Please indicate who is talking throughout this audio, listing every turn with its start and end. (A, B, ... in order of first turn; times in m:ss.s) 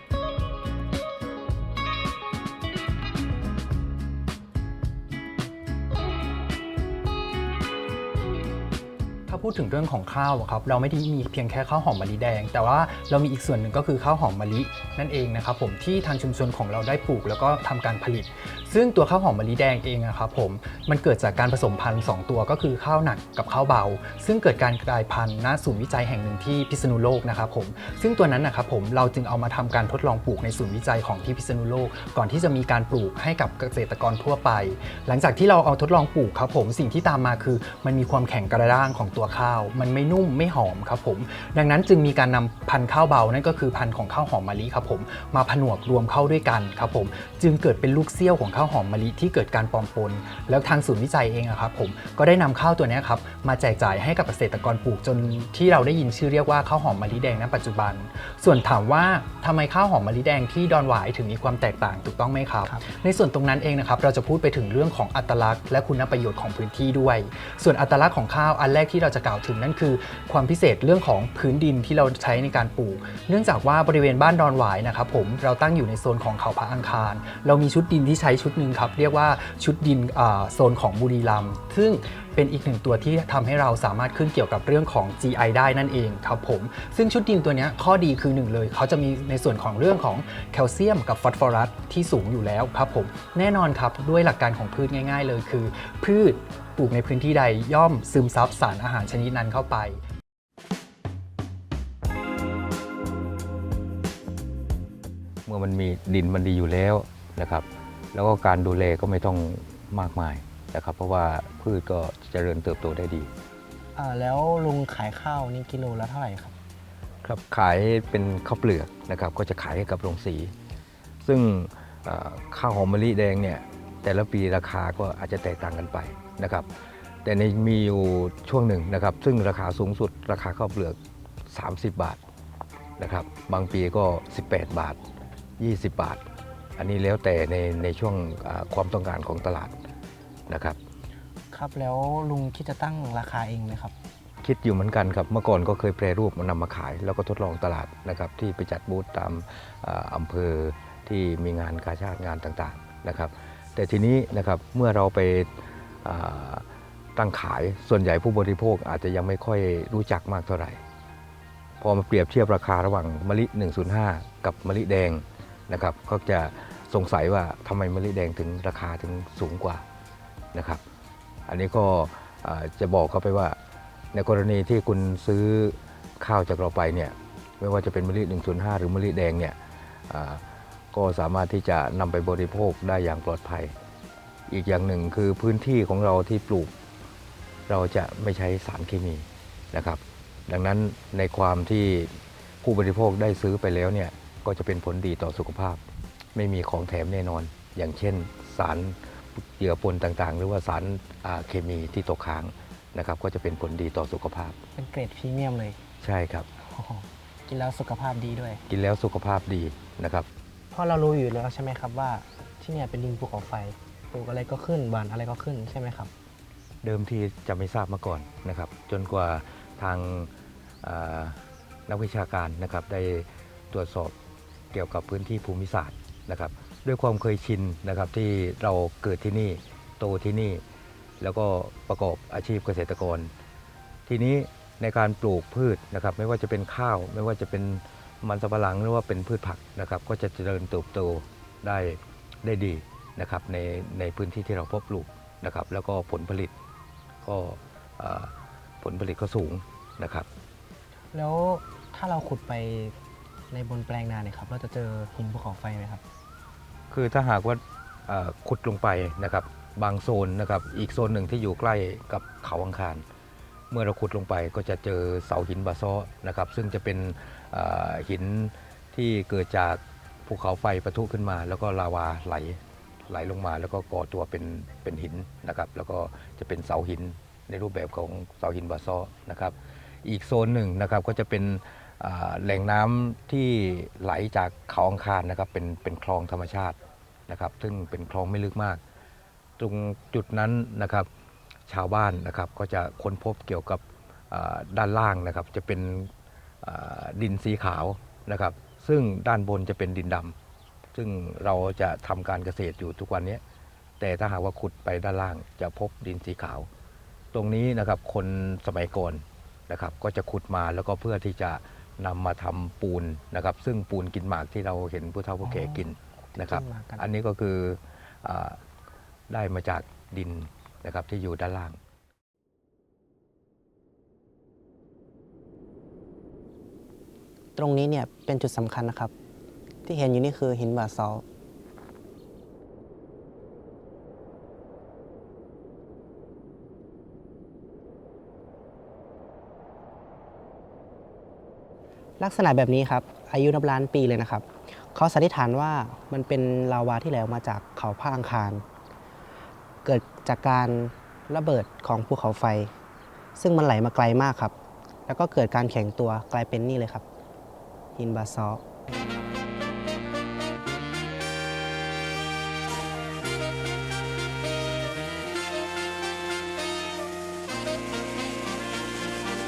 0:09.3-1:40.0 A
1:45.4-1:53.3 B
1:54.0-1:56.6 C
1:57.2-2:00.5 B
2:01.2-2:06.7 B
2:07.2-2:11.0 B
2:11.5-2:12.2 B
2:13.0-2:15.0 B
2:15.6-2:16.2 B
2:16.8-2:19.7 B
2:20.5-2:20.8 B
2:21.5-2:23.9 C
2:24.4-2:36.6 B
2:37.2-2:40.8 B
2:41.8-2:49.8 B
2:50.5-2:50.8 B
2:51.5-2:53.6 B
2:54.1-2:59.6 B
3:00.1-3:03.7 B
3:04.5-3:06.7 B
3:07.7-3:12.1 B
3:12.6-3:15.8 B
3:16.3-3:24.6 B
3:24.8-3:25.8 C
3:26.0-3:26.5 B
3:26.6-3:28.6 C
3:28.7-3:30.3 B
3:30.7-3:36.1 C
3:36.8-3:40.3 B
3:40.8-3:44.1 B
3:44.7-3:50.6 B
3:51.2-3:53.3 B
3:54.1-4:06.5 B
4:07.2-4:10.3 B
4:11.1-4:12.9 C
4:13.5-4:16.0 C
4:16.9-4:23.0 B
4:23.7-4:46.8 B
4:47.3-4:48.8 B
4:49.6-4:51.1 B
4:51.7-4:56.1 B
4:56.6-5:00.3 B
5:00.9-5:03.4 B
5:04.0-5:06.7 B
5:07.3-5:18.6 B
5:15.4-5:17.0 C
5:19.3-5:21.8 B
5:27.6-5:29.1 C
5:29.8-5:31.2 C
5:42.2-5:48.6 C
5:49.8-5:52.7 C
5:53.4-5:54.5 C
5:55.1-5:57.0 C
5:58.0-5:58.6 C